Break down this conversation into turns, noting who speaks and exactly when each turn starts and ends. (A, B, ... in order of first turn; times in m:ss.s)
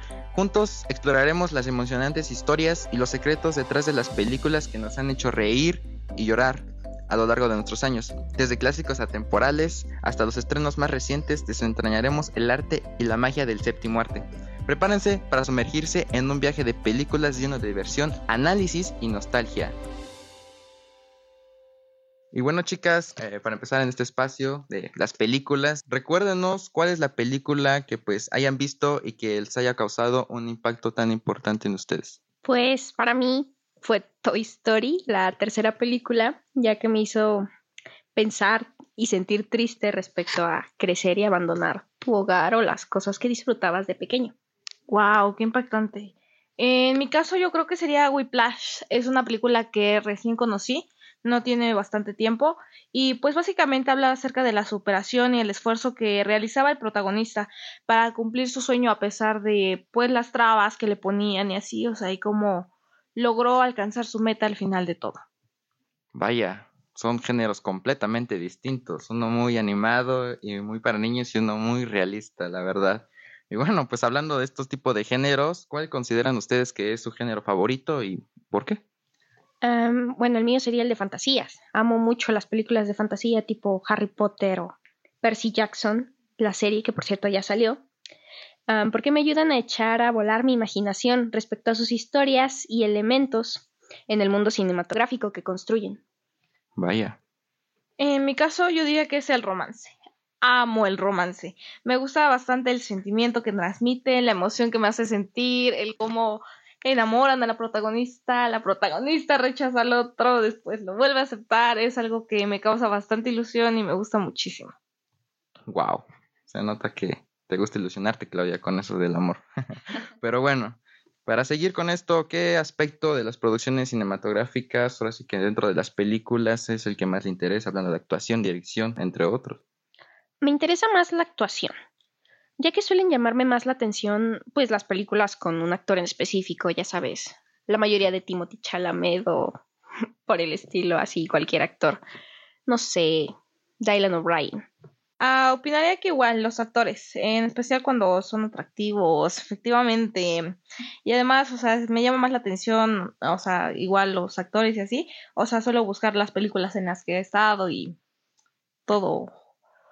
0:00.3-0:19.8 A
0:22.3-0:32.2 A
0:32.4-0:37.5 B
0:38.1-0:44.3 B
0:44.9-1:05.2 C
1:06.1-1:18.8 A
1:19.6-1:27.8 B
1:28.7-1:36.0 B
1:36.8-1:37.2 A
1:38.0-1:54.7 C
1:55.7-1:59.4 A
2:00.2-2:09.6 A
2:10.4-2:11.7 B
2:12.6-2:19.6 B
2:20.2-2:22.0 B
2:22.7-2:24.6 B
2:25.2-2:38.0 C
2:38.9-2:39.3 C